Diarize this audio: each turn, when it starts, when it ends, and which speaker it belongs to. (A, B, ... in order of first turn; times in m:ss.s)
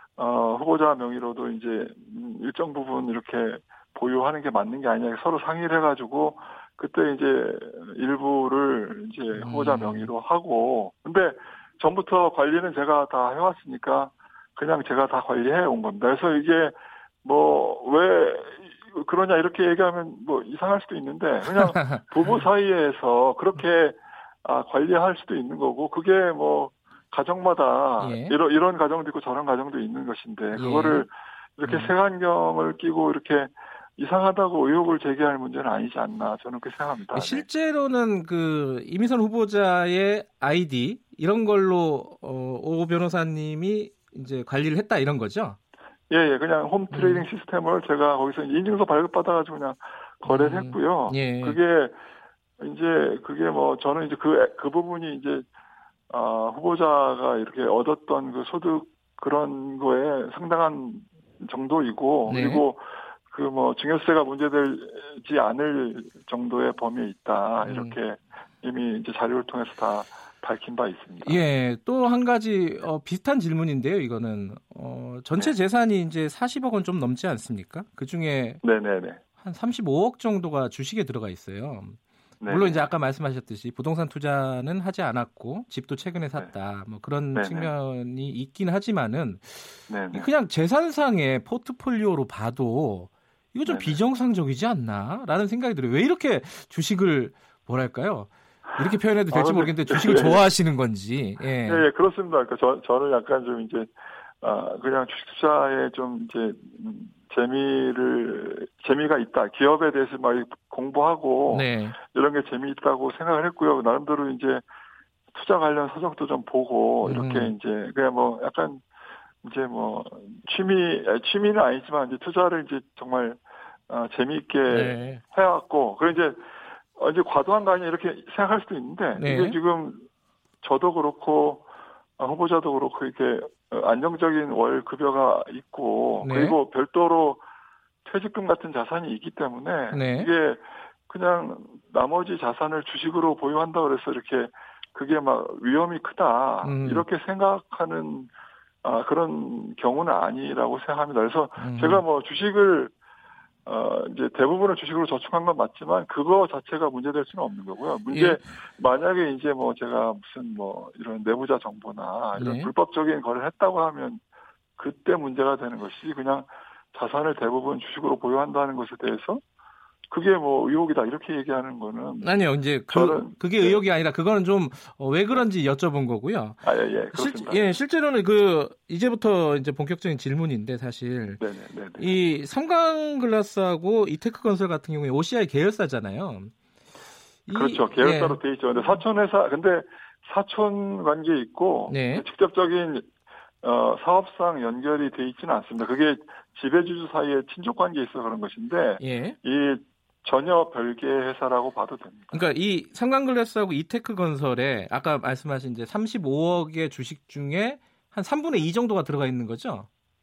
0:00.2-0:37.5 A
0:09.3-0:10.1 B
0:21.6-0:22.4 B
0:28.0-0:28.4 B
0:30.6-0:31.1 B
0:31.6-0:31.9 B
0:37.1-0:45.6 B
0:46.1-0:52.0 A
0:46.9-0:47.3 B
0:50.3-0:51.6 B
0:52.6-0:55.4 A
0:56.1-1:11.4 A
1:02.3-1:02.6 B
1:07.6-1:08.0 B
1:11.2-1:18.6 B
1:18.6-1:19.2 A
1:19.4-1:41.8 B
1:22.4-1:22.9 A
1:27.3-1:27.7 A
1:29.9-1:30.3 A
1:33.7-1:34.0 A
1:39.3-1:40.4 A
1:41.6-1:54.6 A
1:51.5-1:52.0 B
1:55.3-1:58.8 A
1:57.0-1:57.5 B
1:59.4-2:10.1 A
2:04.7-2:05.2 B
2:09.2-2:09.6 B
2:10.6-2:11.7 A
2:12.2-2:17.4 A
2:16.2-2:16.6 B
2:18.0-2:28.3 A
2:19.9-2:20.3 B
2:26.6-2:27.1 B
2:28.8-2:32.9 A
2:31.6-2:32.0 B
2:33.7-2:44.2 A
2:38.1-2:38.4 B
2:42.4-2:42.7 B
2:44.8-2:49.4 A
2:50.1-2:52.3 A
2:52.2-3:01.4 B
2:52.9-2:53.8 A
2:56.6-2:57.7 A
3:01.4-3:02.1 A
3:02.0-3:06.5 B
3:07.5-3:08.4 B
3:07.5-3:13.1 A
3:11.9-3:12.2 B
3:13.6-3:22.5 A
3:19.0-3:19.4 B
3:22.3-3:29.9 B